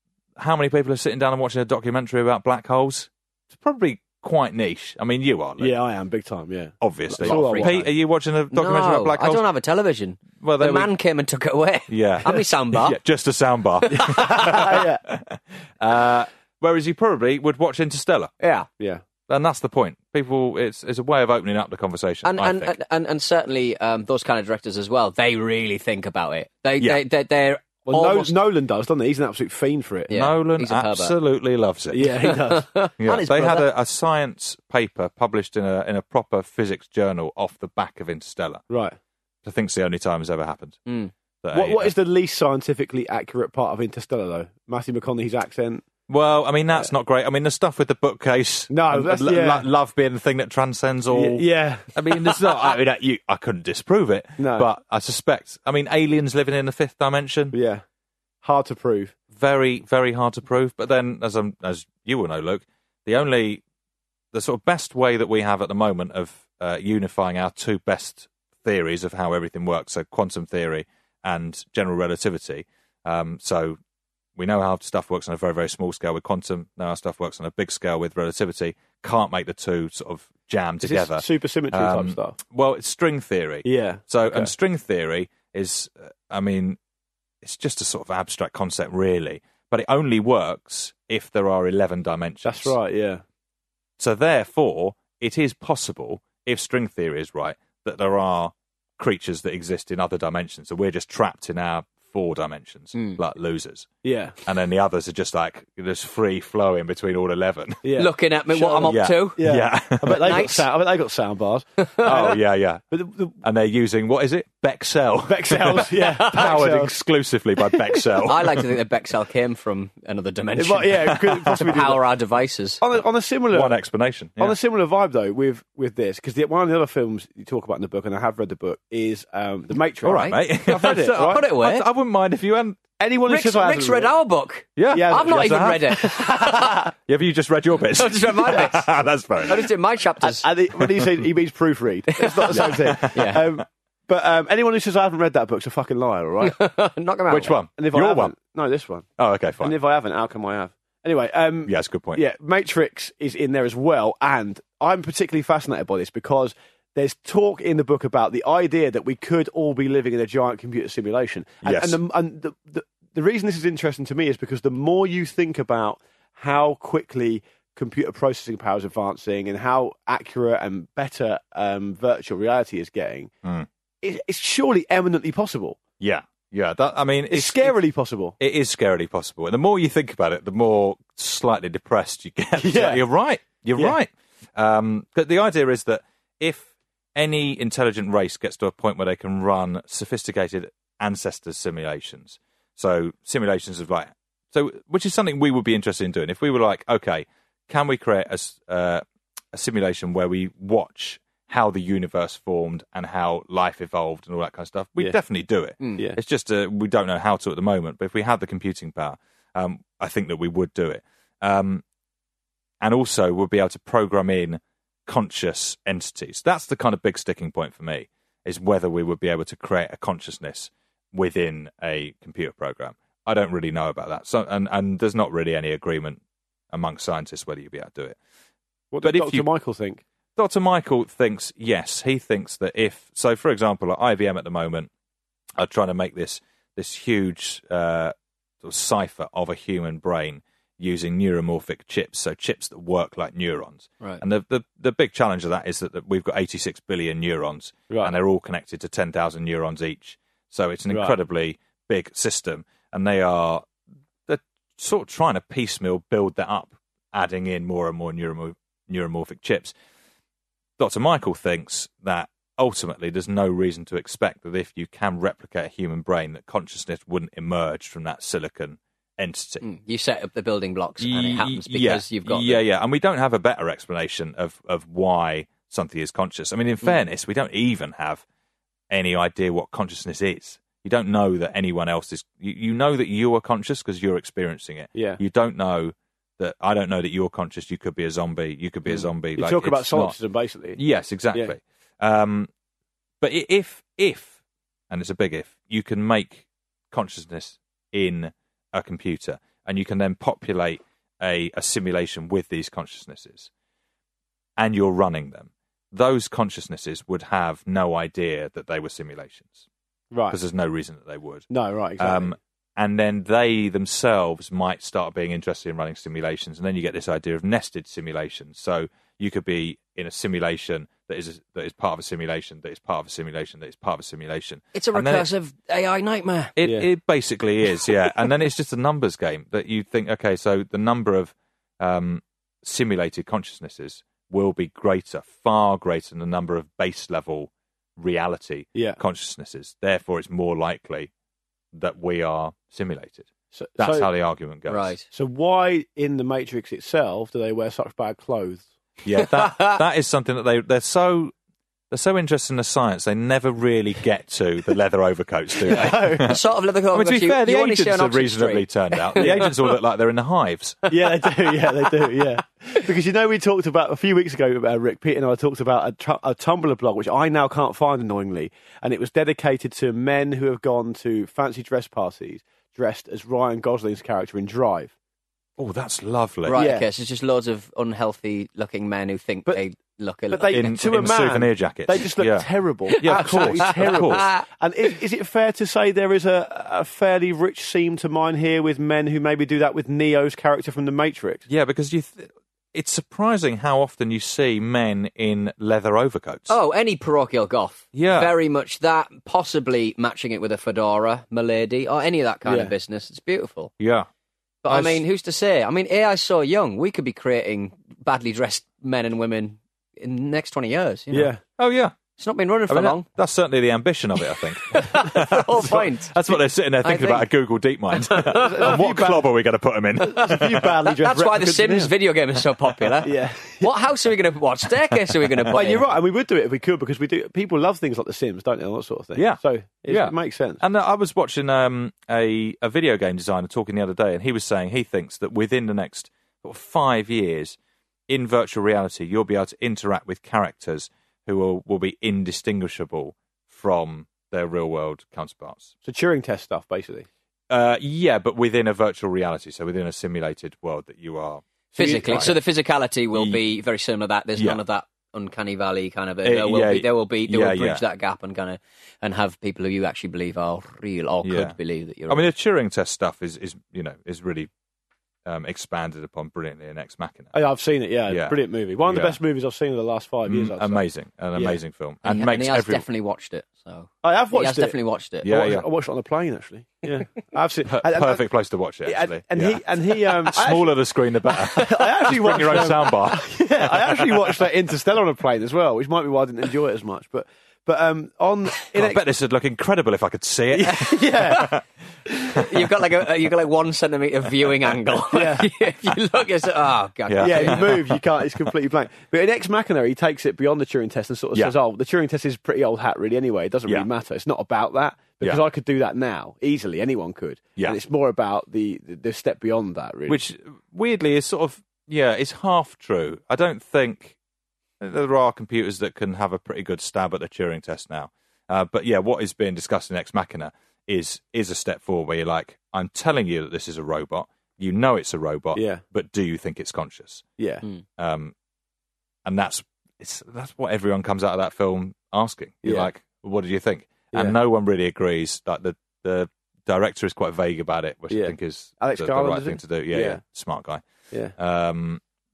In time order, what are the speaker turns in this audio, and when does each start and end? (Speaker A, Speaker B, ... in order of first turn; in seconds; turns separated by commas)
Speaker A: 0.4-5.8, Speaker B: 5.6-7.9, Speaker A: 6.8-9.4, Speaker C: 7.2-7.9, Speaker C: 8.5-13.0, Speaker A: 10.4-10.9, Speaker A: 11.9-18.3, Speaker B: 13.9-15.0, Speaker C: 18.4-18.7, Speaker A: 19.3-22.8, Speaker C: 22.2-28.3, Speaker B: 27.9-30.1, Speaker C: 30.1-31.1, Speaker A: 30.1-32.2, Speaker B: 31.9-32.7, Speaker C: 32.2-33.7, Speaker A: 33.0-38.6, Speaker B: 38.7-39.0, Speaker A: 39.4-40.8, Speaker C: 40.9-41.1, Speaker A: 41.4-41.9, Speaker B: 41.5-45.9, Speaker A: 46.1-57.5, Speaker B: 48.7-49.7, Speaker B: 51.1-51.9, Speaker B: 54.4-54.7, Speaker B: 57.5-57.8, Speaker B: 58.4-59.1, Speaker A: 59.3-63.6, Speaker A: 64.3-73.8, Speaker A: 74.4-86.8, Speaker B: 80.8-82.4, Speaker B: 83.6-84.5, Speaker A: 87.4-92.8, Speaker B: 92.4-93.2, Speaker A: 94.0-103.9, Speaker B: 104.0-104.4, Speaker A: 104.4-107.8, Speaker B: 107.8-113.4, Speaker C: 108.0-109.4, Speaker A: 108.9-110.5, Speaker C: 110.2-110.6, Speaker A: 112.0-118.7, Speaker B: 115.2-117.0, Speaker C: 116.0-116.4, Speaker C: 118.2-122.8, Speaker B: 120.6-122.0, Speaker A: 121.1-121.6, Speaker B: 122.8-123.8, Speaker A: 123.5-124.6, Speaker B: 124.4-131.4, Speaker A: 130.0-132.8, Speaker C: 130.1-131.8, Speaker B: 133.0-134.1, Speaker C: 133.3-136.8, Speaker A: 134.8-136.5, Speaker B: 134.9-135.8, Speaker A: 137.1-139.7, Speaker C: 138.0-138.9, Speaker C: 139.4-140.5, Speaker B: 140.2-146.6, Speaker C: 142.2-143.4, Speaker A: 142.5-143.6, Speaker C: 146.4-147.6, Speaker A: 147.3-148.3, Speaker B: 147.8-173.3, Speaker A: 149.2-149.8, Speaker A: 151.7-152.2, Speaker A: 161.6-162.0, Speaker B: 174.0-175.8, Speaker A: 176.0-177.8, Speaker B: 177.3-178.4, Speaker A: 178.4-211.8, Speaker B: 182.6-183.0, Speaker A: 212.8-226.2, Speaker A: 226.7-228.2, Speaker B: 228.9-230.0, Speaker A: 229.0-229.5, Speaker A: 230.4-234.9, Speaker A: 235.6-253.7, Speaker B: 250.9-251.2, Speaker A: 254.3-259.7, Speaker A: 260.8-269.6, Speaker C: 269.6-272.6, Speaker A: 271.0-278.2, Speaker A: 278.9-290.2, Speaker B: 284.9-285.2, Speaker B: 289.3-290.8, Speaker A: 290.8-292.5, Speaker A: 293.2-294.3, Speaker A: 294.9-303.5, Speaker A: 304.6-309.7, Speaker B: 310.1-310.4, Speaker A: 310.3-325.3, Speaker B: 311.5-312.4, Speaker C: 324.8-326.5, Speaker A: 326.6-341.1, Speaker B: 326.6-326.9, Speaker A: 341.7-344.9, Speaker B: 343.5-344.1, Speaker C: 344.7-345.1, Speaker B: 345.1-348.7, Speaker A: 349.1-351.3, Speaker C: 349.1-349.8, Speaker A: 351.9-356.4, Speaker B: 355.7-356.4, Speaker C: 355.7-359.5, Speaker A: 356.9-360.9, Speaker B: 359.2-359.5, Speaker B: 360.9-374.9, Speaker A: 375.6-376.6, Speaker C: 376.5-380.8, Speaker B: 376.6-376.9, Speaker B: 380.3-391.4, Speaker A: 380.5-384.3, Speaker C: 382.9-384.4, Speaker A: 391.5-396.6, Speaker C: 396.5-403.7, Speaker A: 397.9-398.3, Speaker B: 402.4-402.7, Speaker A: 403.8-404.1, Speaker C: 404.6-411.3, Speaker A: 404.7-405.0, Speaker B: 411.1-411.4, Speaker A: 411.6-411.9, Speaker C: 412.2-413.1, Speaker A: 412.7-420.7, Speaker C: 414.7-417.3, Speaker C: 417.9-418.8, Speaker B: 418.3-419.3, Speaker B: 420.0-421.9, Speaker C: 420.9-425.9, Speaker B: 423.0-423.7, Speaker B: 425.5-430.6, Speaker A: 429.2-437.6, Speaker A: 438.1-445.7, Speaker B: 445.8-447.1, Speaker A: 447.5-452.4, Speaker B: 451.7-452.4, Speaker C: 451.8-462.2, Speaker A: 453.1-453.4, Speaker A: 456.2-457.8, Speaker A: 461.2-461.6, Speaker A: 462.1-464.5, Speaker A: 465.3-467.4, Speaker B: 467.3-470.8, Speaker A: 468.1-469.2, Speaker A: 470.3-472.9, Speaker C: 472.1-475.3, Speaker B: 474.0-478.2, Speaker A: 475.2-475.6, Speaker A: 477.7-484.4, Speaker B: 478.8-489.0, Speaker A: 488.7-491.6, Speaker B: 490.6-491.5, Speaker C: 491.0-491.5, Speaker C: 492.3-497.8, Speaker B: 495.1-495.5, Speaker A: 497.1-498.0, Speaker B: 497.2-510.2, Speaker A: 510.1-514.1, Speaker A: 514.8-527.3, Speaker B: 525.5-525.8, Speaker B: 527.4-527.6, Speaker A: 528.0-528.3, Speaker A: 529.2-540.8, Speaker B: 532.6-532.9, Speaker B: 538.1-540.2, Speaker A: 541.4-542.0